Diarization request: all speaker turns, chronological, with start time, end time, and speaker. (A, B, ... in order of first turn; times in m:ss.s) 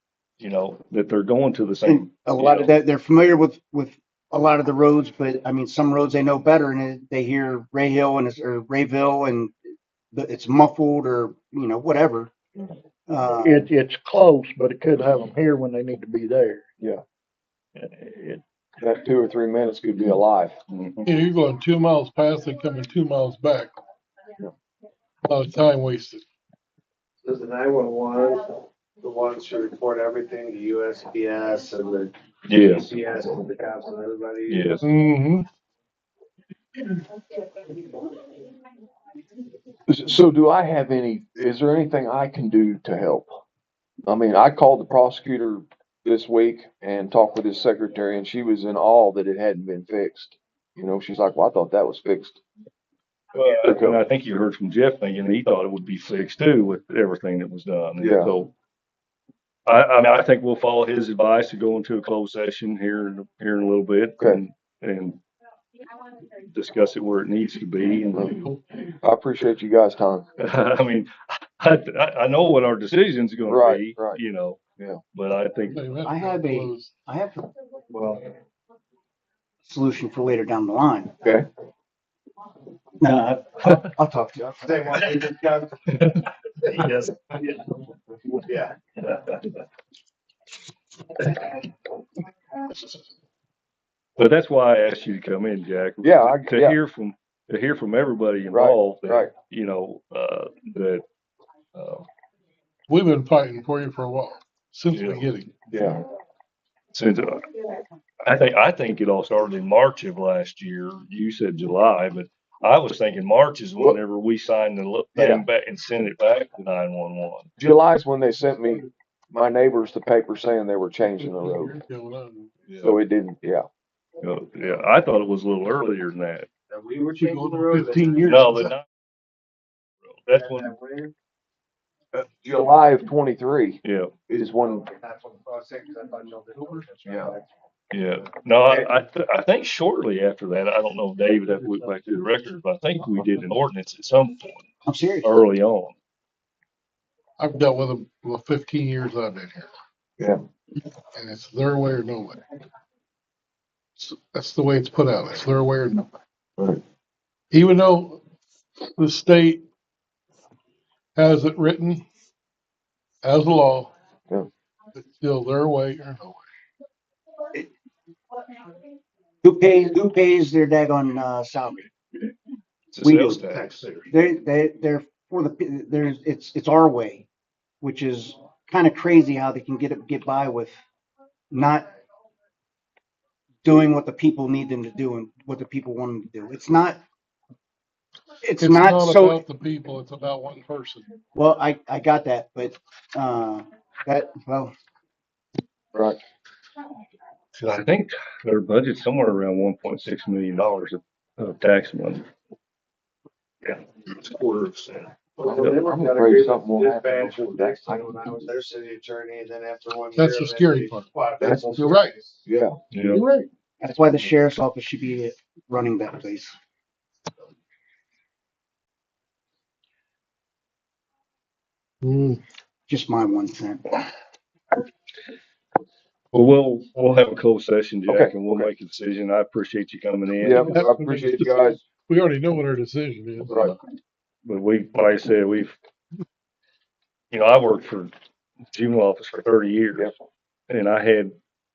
0:00.4-0:02.7 A
0:01.8-0:09.6 B
0:10.1-0:12.3 B
0:13.1-0:13.7 B
0:13.4-0:16.7 C
0:17.8-0:18.4 C
0:18.8-0:20.5 D
0:20.7-0:21.1 A
0:21.0-0:23.7 E
0:25.3-0:26.2 E
0:27.2-0:32.1 F
0:32.5-0:32.9 A
0:32.7-0:34.7 F
0:34.5-0:34.8 A
0:34.8-0:35.4 D
0:39.9-0:43.4 D
0:44.0-0:52.4 D
0:53.3-0:58.5 A
0:53.5-0:54.0 D
0:58.0-0:58.3 D
0:59.7-1:05.2 A
1:06.5-1:08.4 A
1:09.0-1:10.2 D
1:10.4-1:14.6 A
1:13.5-1:14.2 D
1:15.1-1:15.8 A
1:15.7-1:16.9 E
1:16.0-1:17.5 B
1:17.9-1:18.2 F
1:19.6-1:21.1 B
1:23.0-1:24.6 B
1:24.5-1:25.8 F
1:25.9-1:26.2 A
1:26.6-1:27.6 F
1:28.3-1:28.8 F
1:34.2-1:41.0 A
1:36.0-1:36.8 D
1:38.5-1:39.3 D
1:41.8-1:42.1 A
1:42.9-1:45.5 E
1:44.9-1:45.2 A
1:45.7-1:46.0 D
1:46.9-1:47.4 A
1:48.2-1:57.5 A
1:57.6-2:01.8 D
2:01.2-2:02.5 E
2:02.8-2:03.7 D
2:04.2-2:06.5 A
2:06.7-2:08.5 F
2:07.1-2:08.7 E
2:08.2-2:08.8 A
2:10.1-2:10.7 A
2:10.3-2:11.1 F
2:12.1-2:14.9 D
2:13.8-2:14.1 A
2:14.6-2:17.5 F
2:17.0-2:17.4 D
2:17.9-2:24.6 A
2:24.8-2:25.3 B
2:25.2-2:26.0 A
2:27.4-2:29.7 E
2:31.2-2:32.4 E
2:34.0-2:36.1 E
2:37.5-2:38.2 E
2:39.0-2:39.6 E
2:41.2-2:42.0 E
2:43.2-2:43.9 E
2:45.0-2:46.4 E
2:49.4-2:51.9 B
2:52.9-2:54.1 A
2:53.0-2:57.3 B
2:57.8-3:00.8 B
3:01.5-3:01.9 B
3:03.6-3:07.0 B
3:08.4-3:09.4 B
3:08.6-3:11.2 E
3:11.4-3:14.7 B
3:15.9-3:16.2 D
3:17.6-3:22.2 A
3:23.6-3:25.8 A
3:25.4-3:32.4 F
3:25.4-3:28.1 D
3:30.2-3:31.1 E
3:31.4-3:32.7 D
3:31.8-3:32.1 E
3:32.9-3:33.2 A
3:33.1-3:33.5 E
3:33.8-3:36.6 B
3:42.0-3:42.4 E
3:42.9-3:44.0 B
3:46.3-3:50.7 A
3:48.1-3:48.7 D
3:50.4-3:53.7 E
3:50.4-3:51.8 D
3:53.5-3:53.8 D
3:54.4-3:55.8 A
3:57.3-3:58.1 A
3:58.7-4:00.1 A
4:00.7-4:01.4 A